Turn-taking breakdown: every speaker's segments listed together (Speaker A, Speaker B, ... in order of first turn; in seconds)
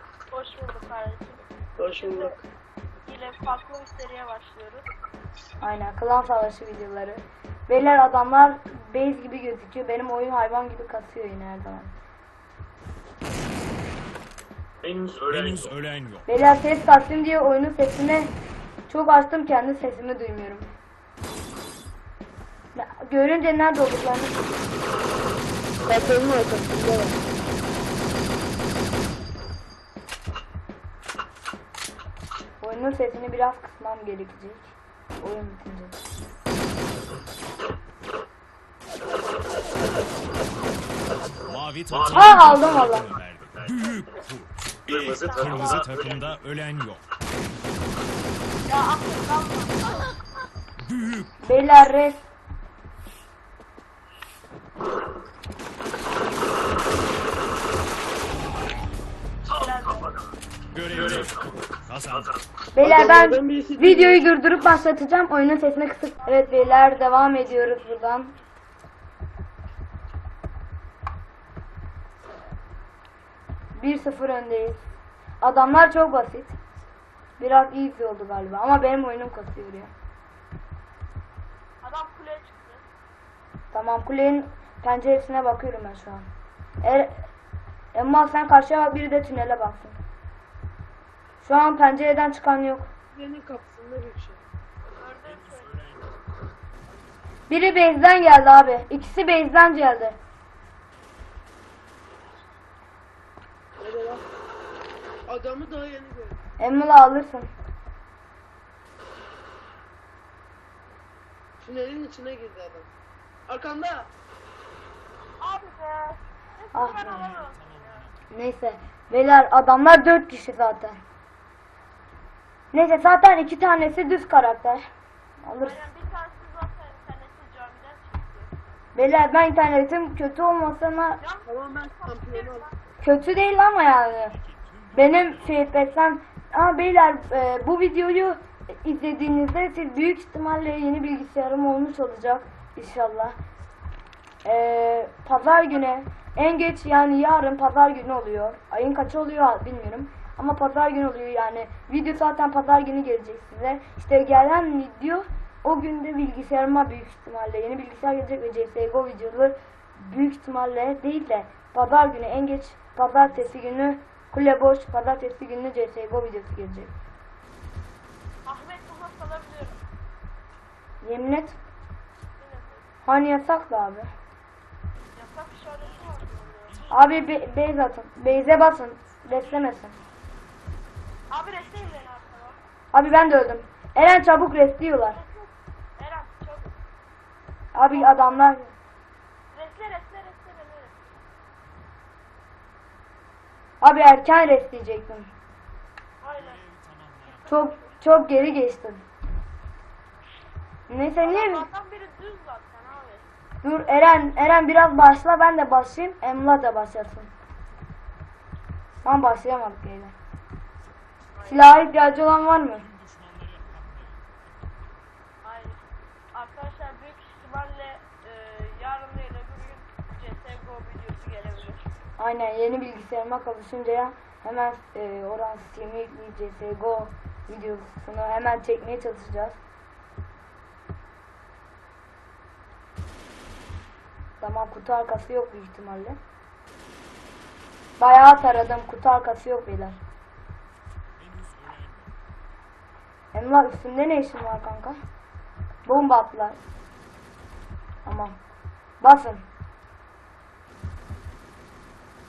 Speaker A: 0.3-2.4, 3.1-4.9, 45.0-45.9, 48.6-50.4, 59.5-60.2, 66.2-67.0, 81.8-82.8, 95.0-95.8, 115.4-118.1, 125.6-128.5, 131.2-132.7, 168.4-169.8, 172.4-172.9, 175.1-177.0, 181.3-182.6, 185.1-186.8, 187.9-188.5, 189.5-191.1, 196.2-196.6, 197.2-198.0, 201.2-203.3, 211.3-211.8, 215.4-215.8, 216.3-221.8
Speaker B: 1.8-2.4, 25.9-27.2, 62.8-64.2, 93.1-94.4, 103.8-104.2, 105.3-106.4, 111.6-112.9, 113.5-114.1, 131.4-132.7
Speaker C: 5.6-11.9, 16.3-18.3, 18.9-20.7, 22.8-24.4, 32.6-36.0, 42.1-43.1, 51.4-52.2, 62.7-68.3, 73.8-74.8, 75.4-76.6, 77.4-79.9, 83.7-86.3, 86.8-87.2, 87.9-90.0, 91.4-92.9, 97.5-100.2, 106.6-107.5, 116.7-117.3, 118.3-121.0, 122.7-124.8, 125.4-125.9, 128.9-131.2, 133.0-134.4, 134.9-143.3, 144.4-166.9, 171.0-171.6, 173.1-174.1, 176.9-179.9, 182.9-185.2, 187.7-188.7, 193.8-195.3, 197.5-199.0, 200.9-201.7, 203.6-207.3, 209.0-210.2, 211.5-212.9, 222.2-229.6, 234.4-236.2, 238.0-240.0, 243.3-245.0, 245.9-246.6, 248.1-248.4, 249.0-249.4
Speaker D: 15.3-16.2, 41.5-47.0, 50.8-51.3, 60.7-62.3, 67.6-68.1, 95.3-96.1, 117.1-118.1, 134.4-135.8, 196.4-197.3, 212.9-214.3, 241.2-242.1